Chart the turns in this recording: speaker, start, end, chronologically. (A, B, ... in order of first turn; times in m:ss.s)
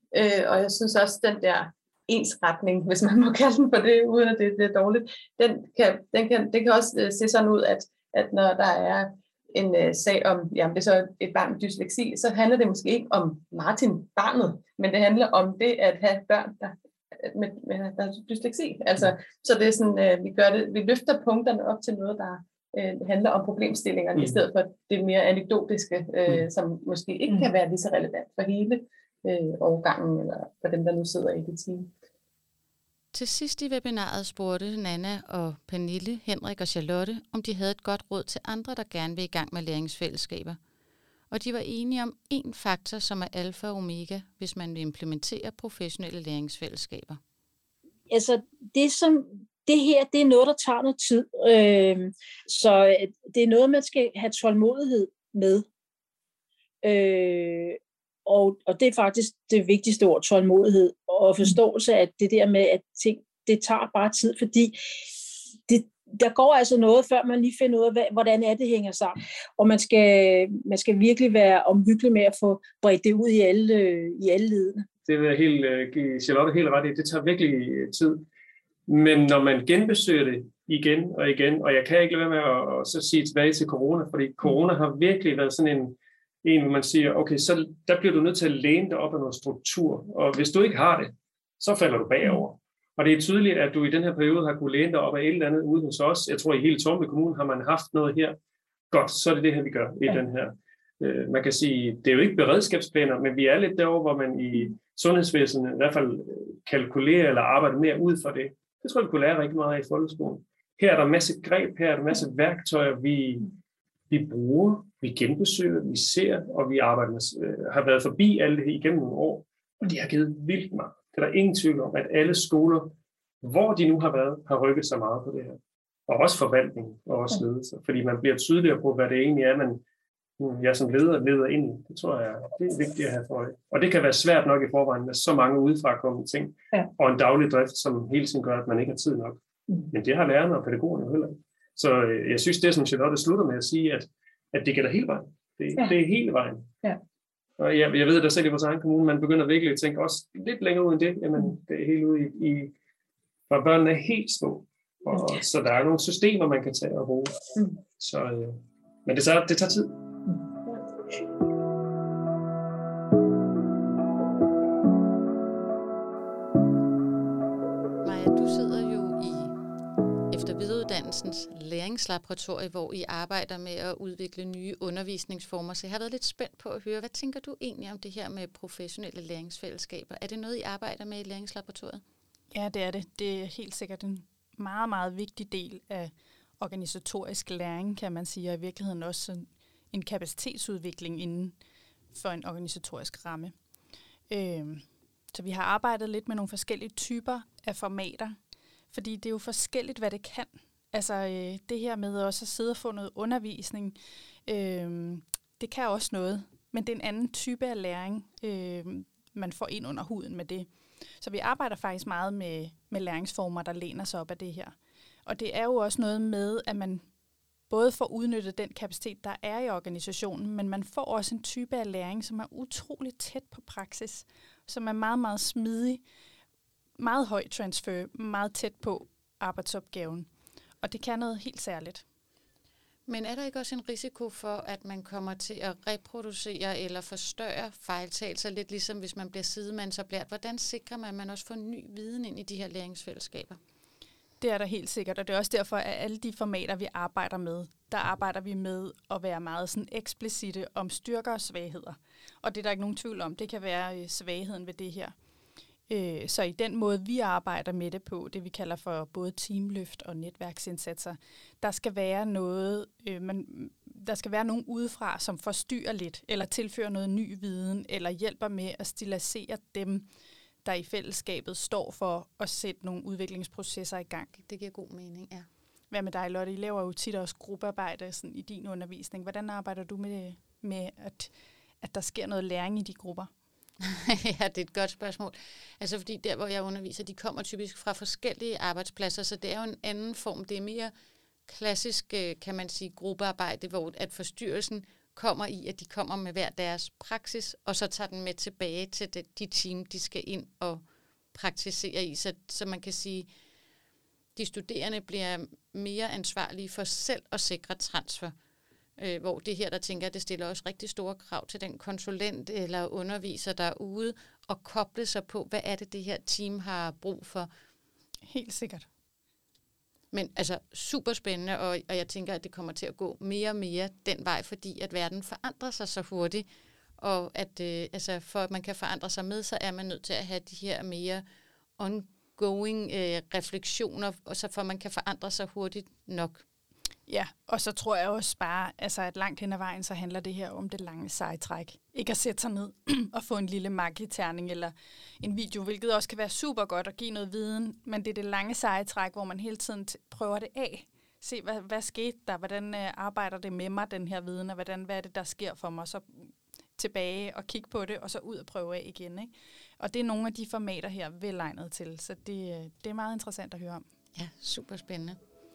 0:00.1-0:31.9 A
0:33.1-0:40.6 B
0:41.3-0:47.2 B
0:48.1-0:55.6 C
0:56.8-1:14.8 C
1:15.1-1:18.2 D
1:18.9-1:38.4 D
1:38.9-1:53.5 D
1:54.1-2:09.8 D
2:10.4-2:26.7 D
2:27.6-2:32.7 D
2:33.5-2:37.4 D
2:38.0-2:40.0 D
2:48.0-2:49.5 B
2:50.3-3:02.0 B
3:02.5-3:11.5 E
3:12.1-3:13.5 E
3:14.3-3:18.4 E
3:18.9-3:37.1 E
3:37.7-3:46.0 E
3:47.0-3:50.3 E
3:50.8-3:52.0 E
3:53.1-4:03.6 B
4:04.4-4:15.1 E
4:15.9-4:30.1 E
4:30.6-4:34.4 E
4:34.4-4:35.5 B
4:35.9-4:43.3 E
4:43.8-4:50.9 B
4:51.4-5:03.3 B
5:04.4-5:08.4 B
5:09.0-5:17.5 B
5:18.3-5:18.9 E
5:20.1-5:26.5 B
5:27.0-5:31.2 B
5:31.8-5:36.4 B
5:37.1-6:03.8 E
6:04.1-6:05.2 B